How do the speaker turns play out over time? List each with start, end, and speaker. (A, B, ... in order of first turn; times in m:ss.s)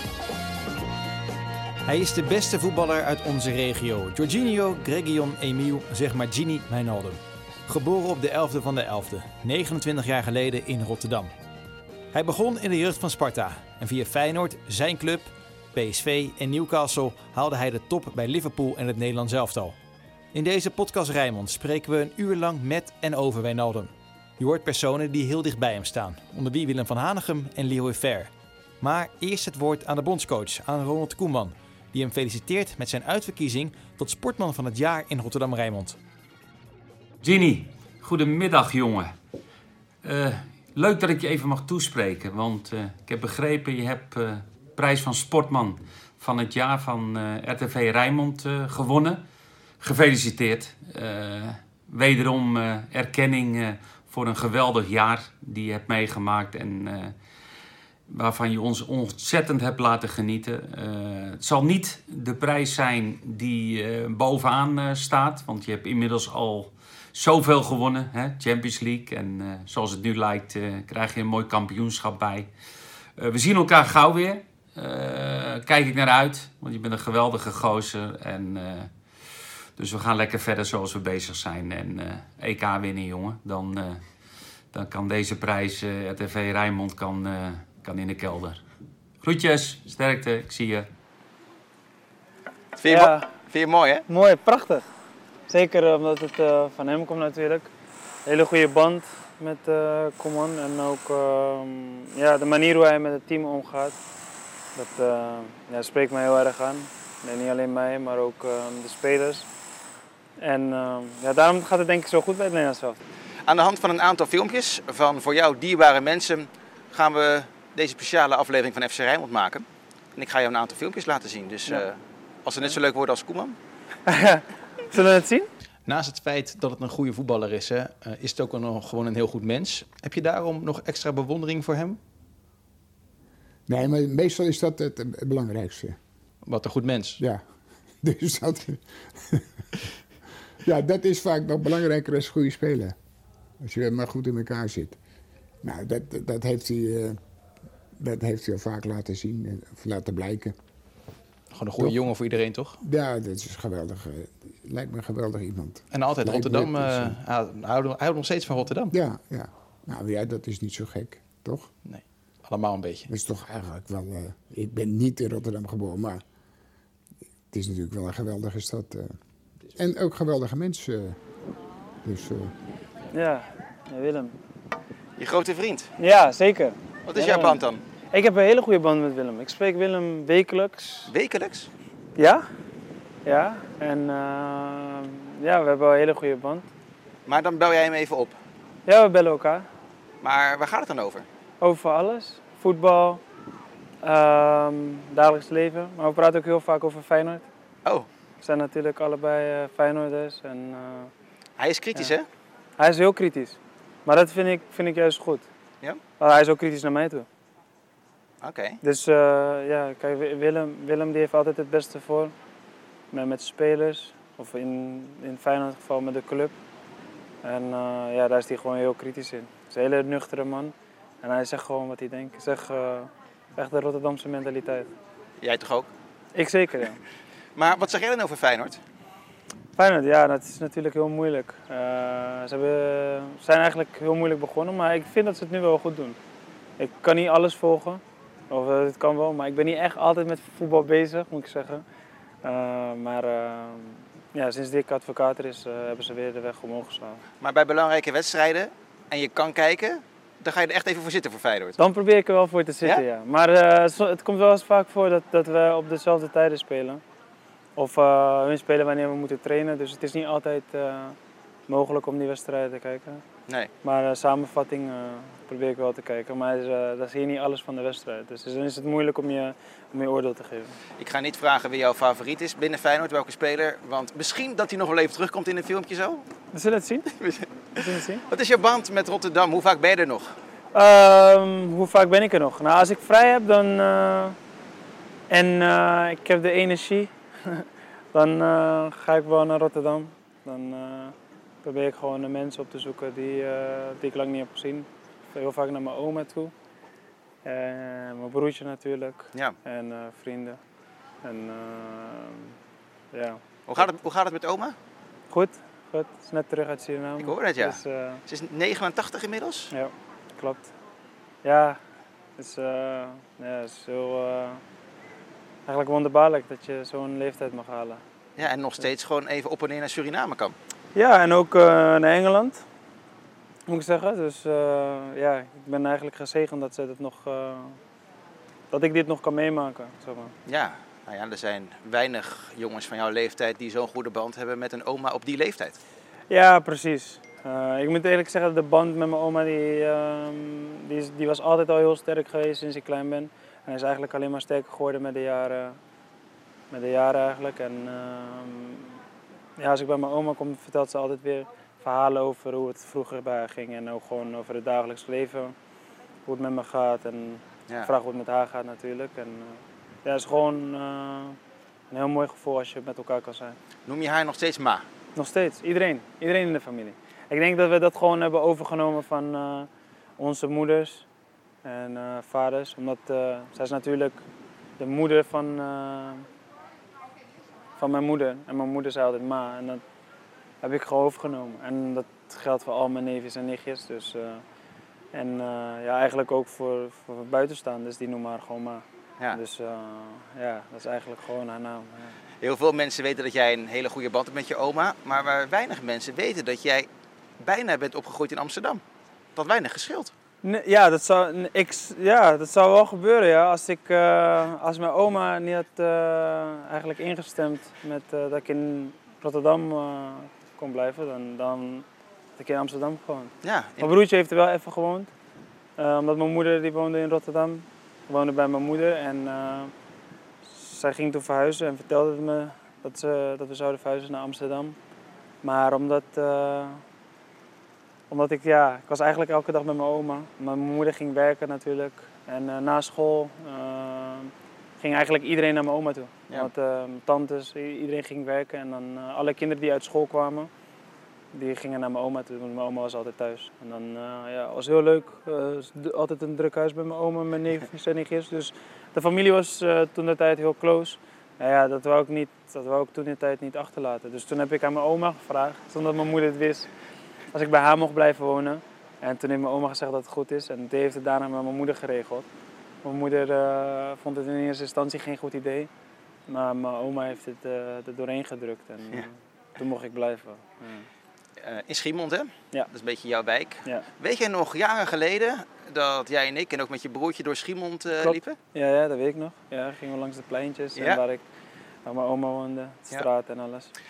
0:01.8-0:11.3 A
0:12.1-0:19.8 A
0:20.3-0:36.0 A
0:37.2-0:39.2 B
0:40.0-0:49.2 B
0:49.8-0:57.1 B
0:58.1-1:12.5 B
1:13.2-1:18.9 B
1:19.8-1:24.0 B
1:24.7-1:28.6 B
1:29.2-1:30.9 B
1:32.8-1:34.0 C
1:32.9-1:33.3 D
1:34.1-1:34.8 D
1:35.5-1:37.7 D
1:38.2-1:44.0 D
1:44.8-1:49.5 D
1:50.4-1:53.0 D
1:53.4-1:59.6 C
2:00.2-2:03.6 C
2:04.1-2:05.5 D
2:05.8-2:12.0 A
2:13.7-2:16.0 E
2:16.4-2:17.2 A
2:17.2-2:17.4 E
2:18.0-2:19.5 E
2:20.6-2:22.9 E
2:23.6-2:25.0 E
2:25.6-2:27.2 E
2:28.0-2:30.6 E
2:31.5-2:32.8 A
2:32.8-2:37.2 E
2:35.9-2:38.9 A
2:38.9-2:41.7 E
2:41.8-2:43.1 A
2:43.1-2:46.2 E
2:47.5-2:49.1 E
2:49.7-2:51.2 E
2:52.0-2:52.5 E
2:53.1-2:54.4 D
2:55.2-2:55.9 C
2:56.0-3:01.1 D
2:57.1-2:57.8 C
3:01.1-3:01.7 C
3:02.2-3:02.4 D
3:03.2-3:06.7 D
3:07.2-3:08.3 C
3:08.8-3:09.7 D
3:10.2-3:11.2 C
3:11.6-3:13.2 D
3:14.0-3:17.4 D
3:18.4-3:21.1 D
3:21.6-3:22.2 C
3:22.8-3:25.4 D
3:26.2-3:27.2 D
3:28.4-3:28.8 C
3:28.8-3:32.3 D
3:33.1-3:36.5 D
3:37.4-3:44.9 D
3:45.4-3:45.9 C
3:46.3-3:47.0 D
3:47.6-3:48.8 C
3:49.8-3:56.2 D
3:56.8-4:01.8 D
4:02.4-4:07.2 D
4:07.4-4:11.8 C
4:11.8-4:17.0 D
4:17.8-4:21.2 D
4:21.7-4:23.2 D
4:23.8-4:30.8 D
4:31.0-4:36.2 C
4:36.5-4:37.1 D
4:37.2-4:40.3 C
4:37.7-4:38.2 D
4:40.7-4:44.4 D
4:45.3-4:56.5 D
4:57.4-5:00.6 D
5:01.2-5:02.5 D
5:03.1-5:03.8 D
5:03.7-5:04.8 C
5:05.3-5:08.2 D
5:07.2-5:09.7 C
5:09.7-5:10.7 D
5:11.4-5:11.8 D
5:12.4-5:14.6 D
5:15.6-5:18.0 D
5:18.4-5:20.5 C
5:20.9-5:22.6 D
5:23.7-5:27.8 D
5:28.7-5:30.3 D
5:30.4-5:35.8 C
5:36.3-5:45.8 D
5:46.7-5:49.0 D
5:49.6-5:55.5 D
5:56.2-6:01.4 D
6:01.9-6:03.6 D
6:03.8-6:04.8 C
6:05.1-6:11.0 D
6:11.6-6:14.2 D
6:14.8-6:16.3 D
6:17.8-6:19.8 D
6:20.6-6:24.4 D
6:25.1-6:32.1 D
6:32.4-6:36.9 C
6:37.4-6:38.8 C
6:39.4-6:40.1 C
6:40.4-6:51.8 D
6:52.4-6:55.1 D
6:53.4-6:53.9 C
6:55.8-6:59.7 D
7:00.5-7:04.8 D
7:05.4-7:06.8 D
7:08.1-7:20.5 D
7:21.3-7:36.7 D
7:37.3-7:42.3 D
7:42.8-7:45.7 D
7:46.3-7:50.9 D
7:51.4-7:58.4 C
7:58.0-8:01.2 D
8:01.8-8:03.7 D